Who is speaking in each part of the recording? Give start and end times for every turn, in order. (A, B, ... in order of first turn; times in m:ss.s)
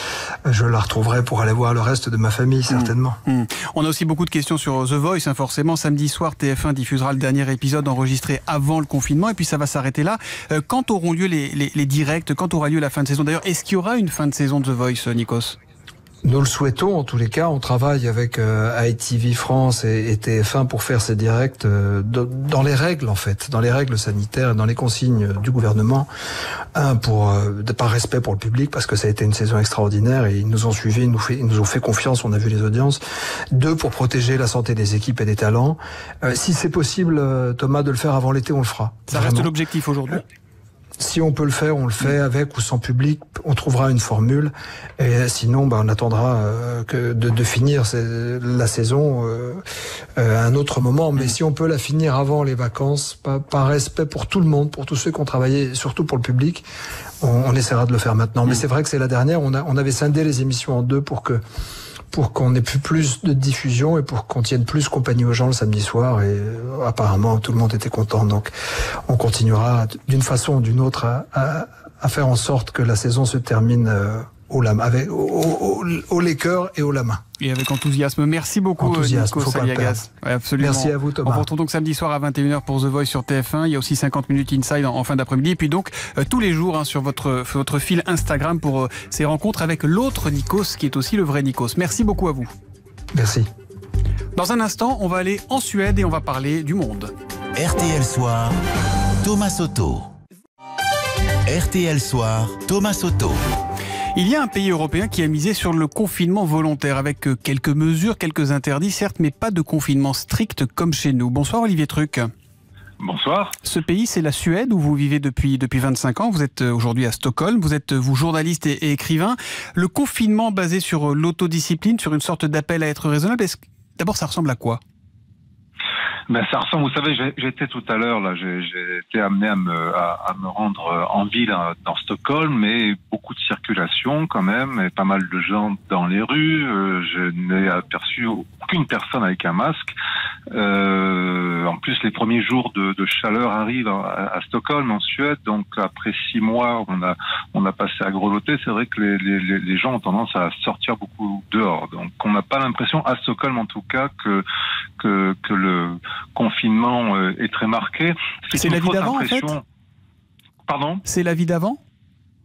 0:00.5-0:03.2 A
0:02.7-0:15.6 B
0:16.2-0:26.1 A
0:26.8-0:33.0 A
0:33.5-0:39.5 A
0:39.1-0:40.2 B
0:41.0-0:49.6 A
0:50.2-0:56.6 A
0:57.2-1:01.4 A
1:02.1-1:08.5 A
1:09.1-1:17.2 A
1:17.4-1:32.5 B
1:18.8-1:20.0 A
1:20.6-1:21.5 A
1:33.1-1:33.5 A
1:34.4-1:37.1 B
1:37.6-1:38.6 C
1:39.2-1:40.1 C
1:41.5-1:43.4 C
1:44.2-1:52.3 B
1:53.0-1:53.6 D
1:53.6-2:04.8 B
2:06.3-2:19.9 D
2:20.5-2:34.4 D
2:35.0-2:39.6 D
2:38.5-2:39.6 B
2:40.7-2:41.0 D
2:41.0-2:41.8 B